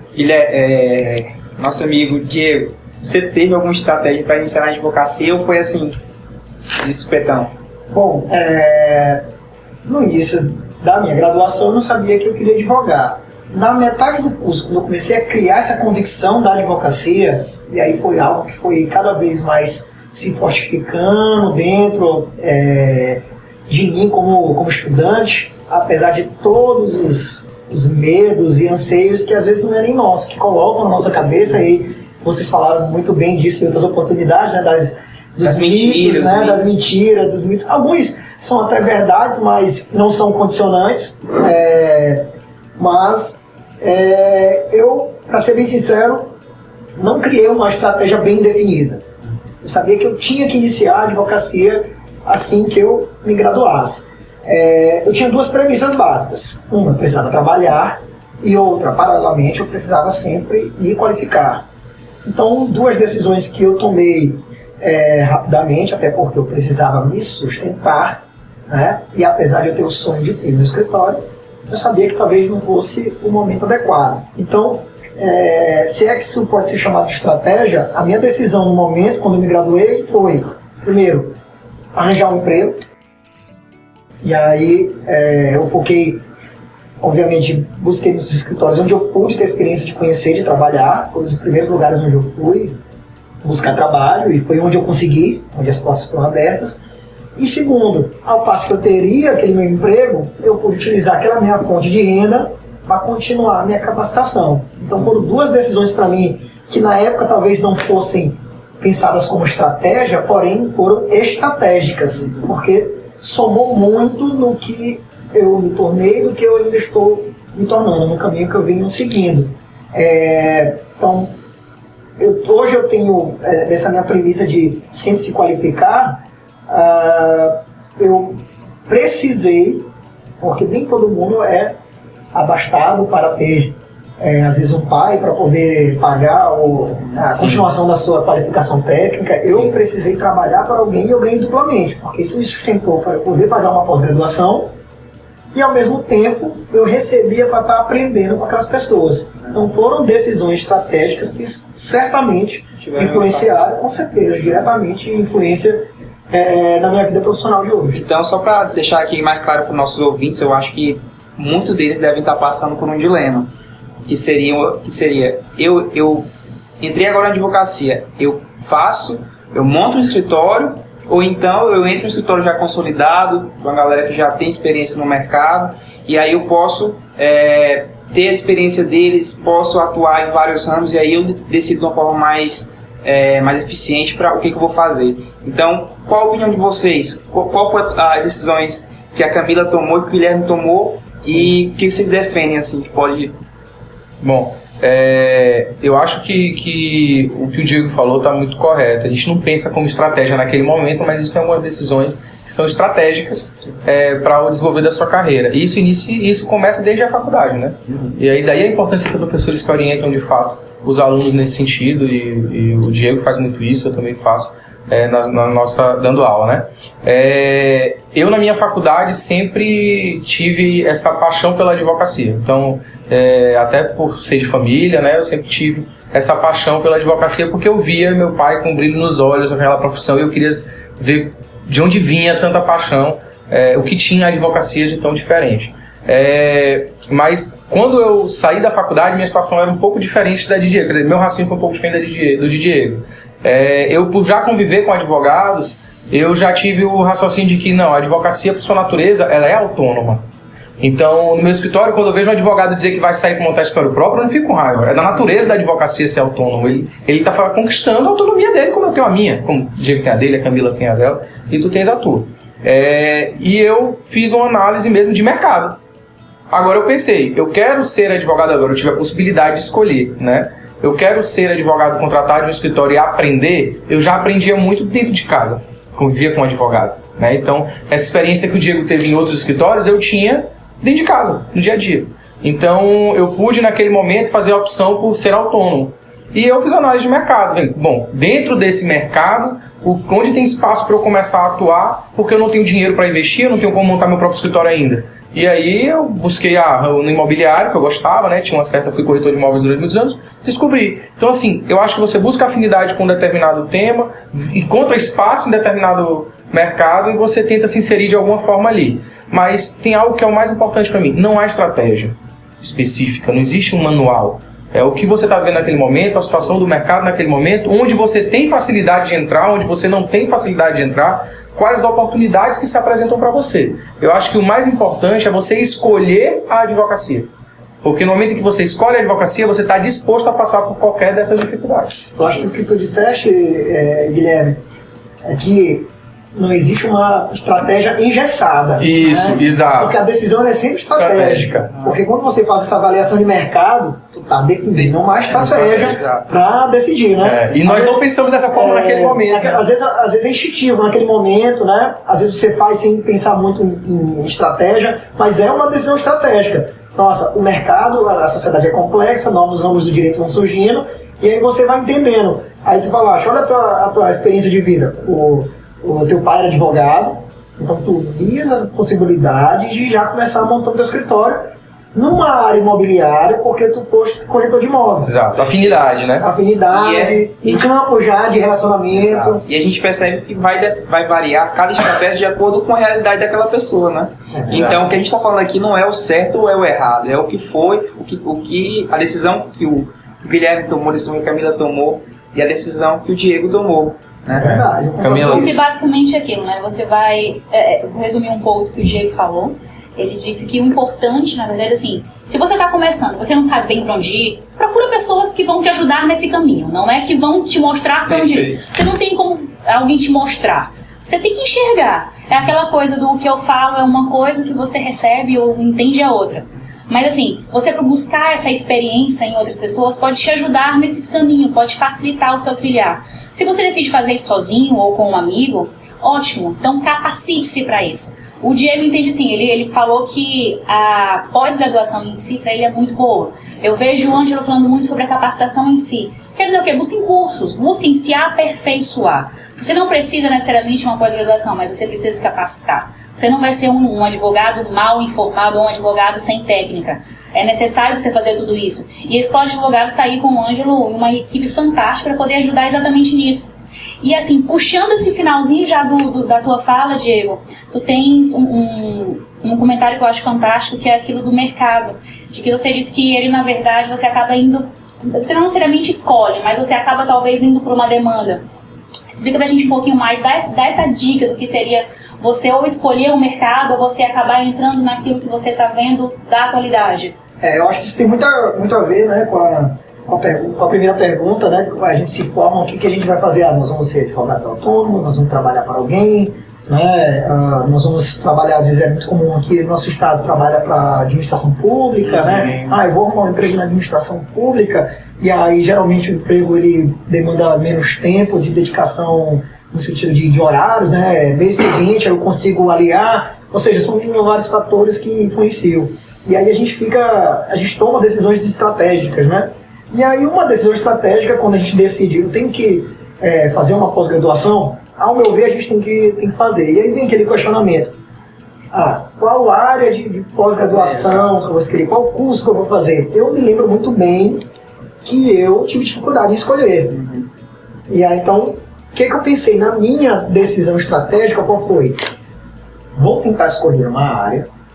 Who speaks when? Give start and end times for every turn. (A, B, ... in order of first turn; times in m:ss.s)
0:00.1-0:06.0 A
0:06.8-0:07.5 A
0:07.9-0:09.2 B
0:09.8-0:42.2 B
0:35.4-0:36.7 A
0:42.8-0:46.3 B
0:47.0-0:49.0 B
0:49.6-1:01.6 B
1:02.2-1:21.4 B
1:21.9-1:22.8 B
1:24.2-1:26.2 B
1:27.0-1:32.8 B
1:33.4-1:36.8 B
1:37.4-2:01.3 B
2:02.2-2:09.9 B
2:10.4-2:11.8 B
2:12.3-2:24.7 B
2:17.4-2:17.6 C
2:25.5-2:38.0 B
2:32.8-2:33.5 A
2:37.9-2:43.5 A
2:44.0-3:13.4 A
3:14.2-4:10.2 C
4:10.8-4:25.8 C
4:26.5-5:27.3 C
5:27.8-5:32.0 C
5:32.2-5:34.6 B
5:35.2-5:48.0 B
5:38.8-5:39.9 C
5:41.0-5:41.8 C
5:44.7-5:46.3 A
5:45.5-5:45.9 C
5:47.2-5:49.6 C
5:48.5-6:15.2 B
6:15.0-6:16.3 C
6:15.4-6:15.7 A
6:16.2-6:19.4 B
6:16.7-6:17.7 A
6:18.9-6:34.6 A
6:24.3-6:24.8 B
6:24.5-6:24.8 C
6:34.3-6:35.6 B
6:34.4-6:35.6 C
6:35.2-7:48.4 D
6:48.1-6:48.6 A
7:49.1-7:57.2 D
7:57.4-8:38.0 B
8:12.0-8:12.8 A
8:38.7-8:44.4 B
8:40.7-8:41.3 A
8:45.0-8:47.0 B
8:46.9-8:47.3 A
8:47.9-8:52.0 B
8:53.0-8:54.5 B